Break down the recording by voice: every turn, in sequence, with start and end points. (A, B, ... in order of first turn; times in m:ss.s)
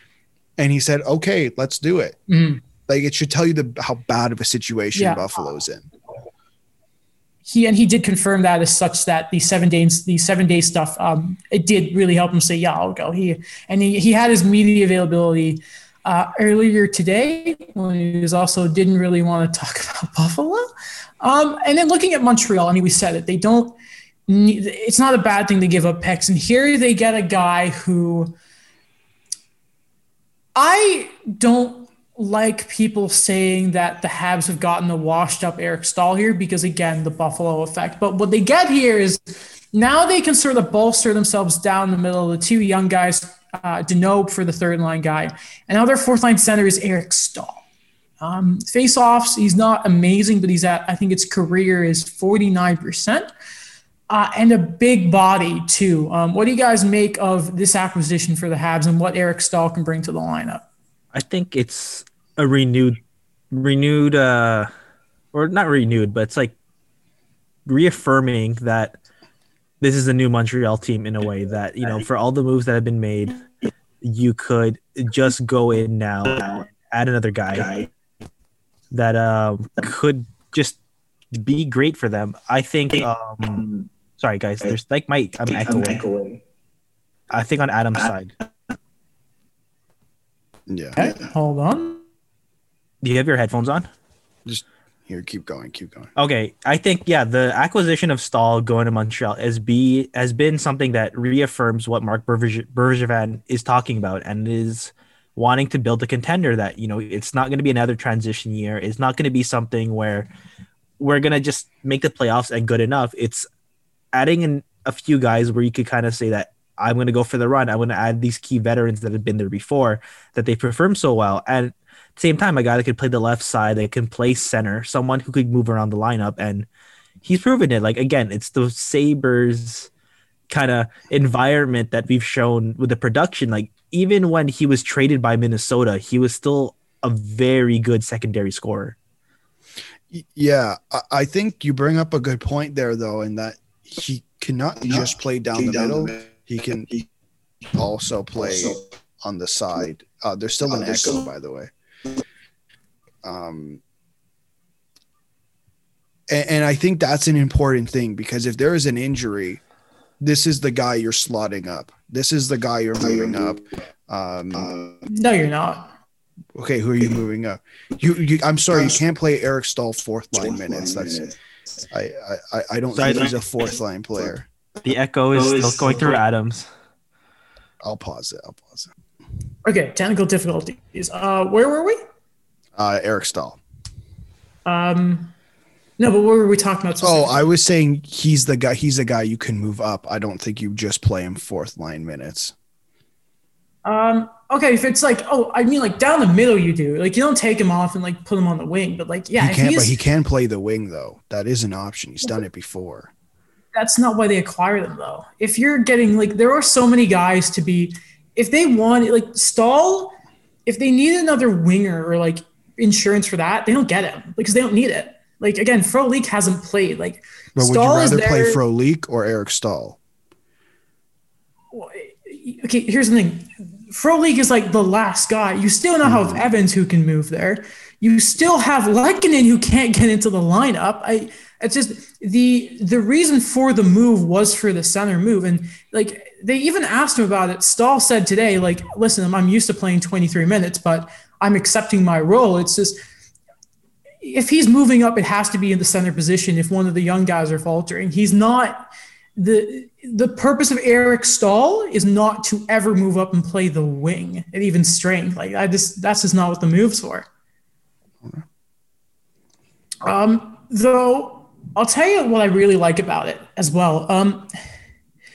0:00.6-0:02.2 A
0:02.3-0:02.6 B
0:02.9-0:05.8 A
0:04.9-0:05.2 B
0:07.4-0:20.7 B
0:21.2-0:23.8 B
0:24.3-0:28.3 B
0:30.5-0:47.6 B
0:48.2-0:53.3 B
0:54.1-1:00.6 B
1:01.1-1:04.7 C
1:05.3-1:06.5 C
1:07.6-1:09.0 C
1:09.8-1:13.4 C
1:14.0-1:17.8 C
1:18.9-1:20.8 C
1:21.3-1:26.1 C
1:27.3-1:28.3 C
1:30.7-1:31.2 A
1:31.1-1:32.0 B
1:33.0-1:33.9 C
1:34.4-1:36.1 A
1:36.2-1:50.3 C
1:51.0-1:53.4 C
1:54.1-2:06.7 C
2:07.2-2:09.9 C
2:10.5-2:19.0 C
2:20.1-2:27.0 A
2:27.7-2:31.7 A
2:33.2-2:33.8 A
2:36.3-2:39.6 A
2:40.2-2:44.8 A
2:45.1-2:45.9 B
2:46.5-2:51.3 A
2:51.9-2:54.5 A
2:53.0-2:53.3 C
2:54.8-2:56.7 C
2:57.8-2:58.9 A
2:59.6-3:02.0 B
3:02.8-3:03.6 A
3:04.6-3:05.3 B
3:06.0-3:07.4 B
3:07.0-3:12.5 A
3:13.8-3:19.9 B
3:19.4-3:23.1 A
3:23.7-3:38.6 B
3:37.6-3:40.0 A
3:41.7-4:03.0 B
3:46.0-3:46.4 A
4:04.2-4:17.3 B
4:20.0-4:24.5 B